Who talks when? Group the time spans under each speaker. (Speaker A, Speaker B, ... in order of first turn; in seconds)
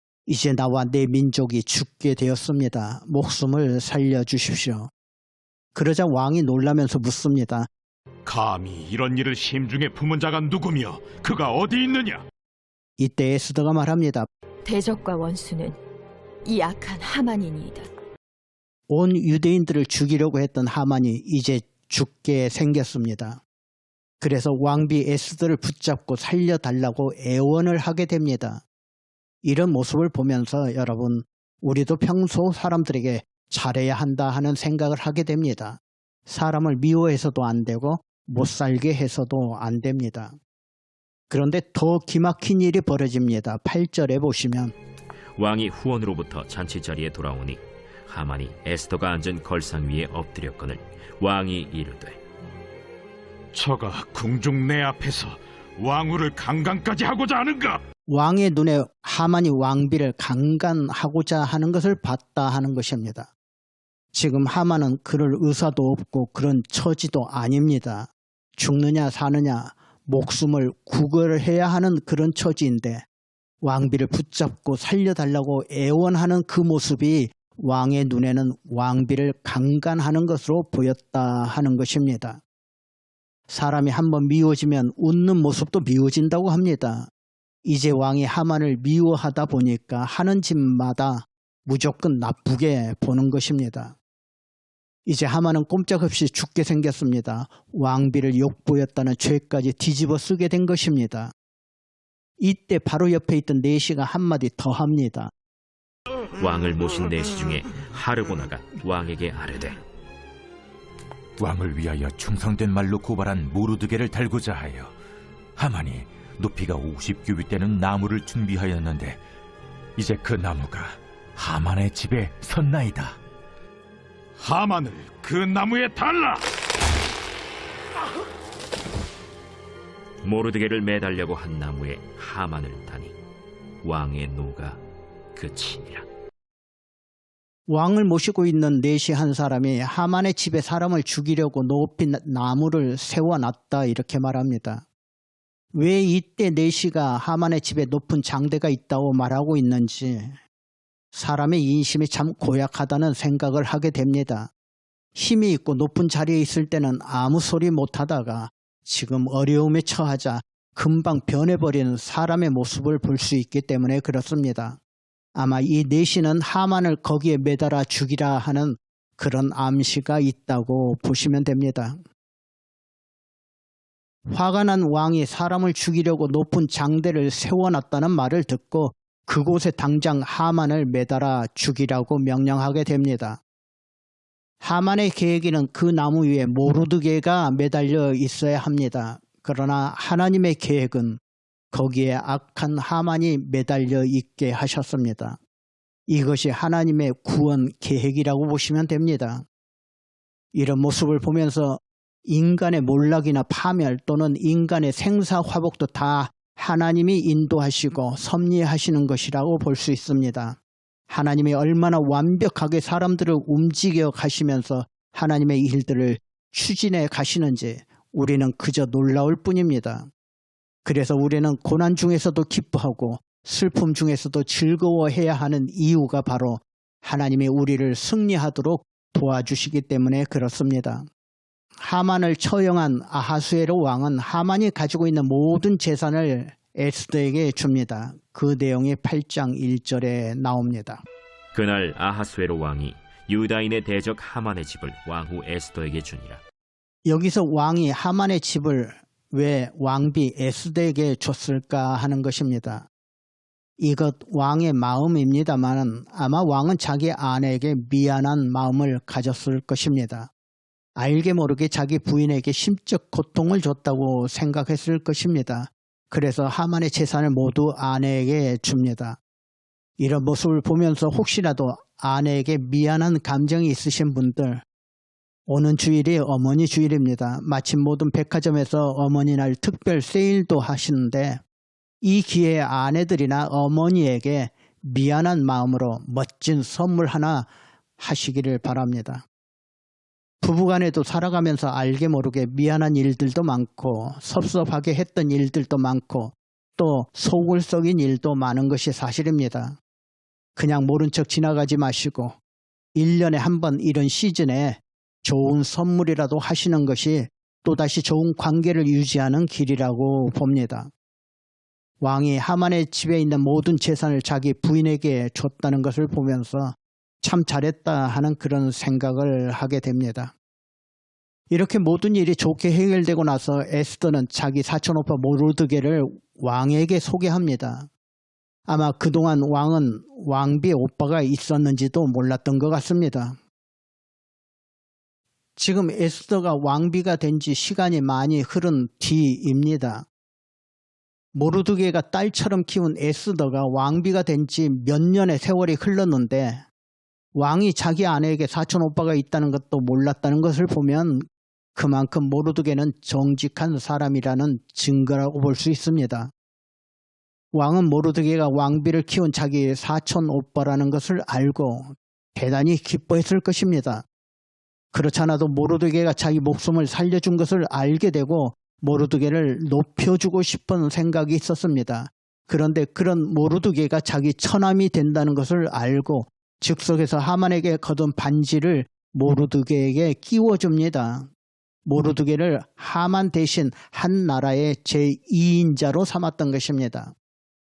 Speaker A: 0.3-4.9, 5.7-7.7, 13.0-14.3, 18.9-23.4, 24.2-28.6, 29.4-40.4, 41.3-44.7, 58.1-63.3, 64.1-73.1, 73.6-82.4, 83.5-87.1, 87.7-94.0, 95.1-101.3, 102.4-105.3, 137.7-144.9, 145.7-150.4, 151.1-154.5, 155.2-164.8, 165.3-172.0, 174.3-183.4, 184.6-191.2, 191.7-195.4, 196.1-199.5, 200.5-220.1, 220.8-231.1, 231.8-241.0, 247.1-252.9, 253.8-260.3, 261.0-269.2, 270.0-274.6, 275.5-281.4, 282.0-289.2, 290.4-299.8, 300.6-302.4, 302.9-310.9, 312.0-320.3, 321.5-327.9, 328.7-333.4, 335.6-340.1, 341.3-346.6, 347.3-356.3, 357.5-364.1, 364.9-381.3, 381.9-387.1
Speaker B: 8.3-12.2, 53.5-57.8, 124.4-126.4
Speaker C: 14.7-15.8, 16.4-17.9
Speaker D: 45.4-52.2, 106.4-109.8, 130.2-133.2, 133.8-134.8, 135.3-136.1, 241.5-246.4
Speaker E: 111.4-114.9, 115.6-119.2, 120.0-123.2